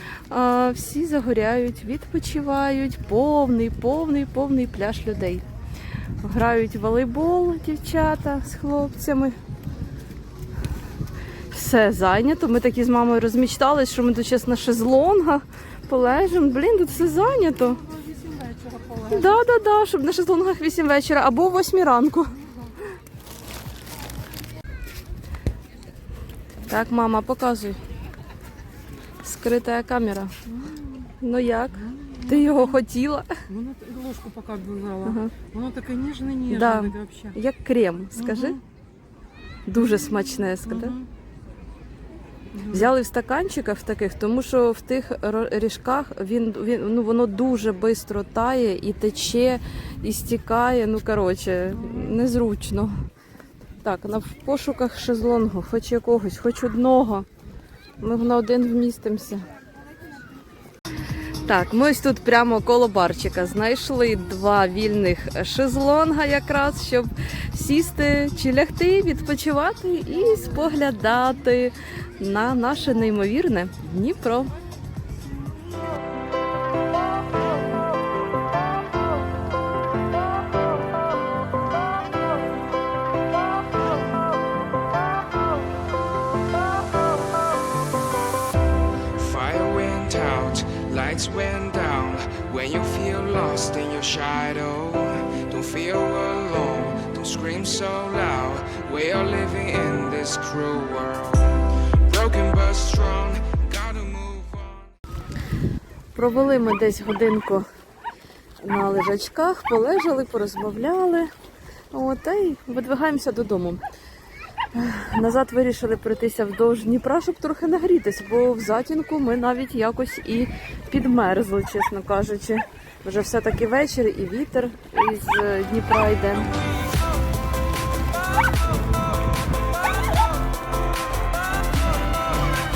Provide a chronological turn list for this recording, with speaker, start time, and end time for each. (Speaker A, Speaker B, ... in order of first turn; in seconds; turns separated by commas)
Speaker A: 0.3-5.4, Speaker A: 6.2-9.3, Speaker A: 11.5-17.8, Speaker B: 17.3-19.4, Speaker A: 19.1-22.3, Speaker A: 26.7-27.8, Speaker A: 29.2-30.3, Speaker B: 30.4-31.1, Speaker A: 31.2-33.3, Speaker B: 31.7-32.8, Speaker B: 33.5-37.4, Speaker A: 35.0-35.3, Speaker A: 36.5-38.6, Speaker B: 38.1-38.6, Speaker A: 39.7-41.0, Speaker B: 39.7-41.1, Speaker B: 42.5-42.9, Speaker A: 42.7-52.9, Speaker B: 51.7-52.2, Speaker A: 53.8-57.2, Speaker A: 58.0-59.4, Speaker A: 61.4-74.5, Speaker C: 89.2-104.9, Speaker A: 106.1-107.6, Speaker A: 108.6-111.3, Speaker A: 111.9-113.8, Speaker A: 114.7-126.5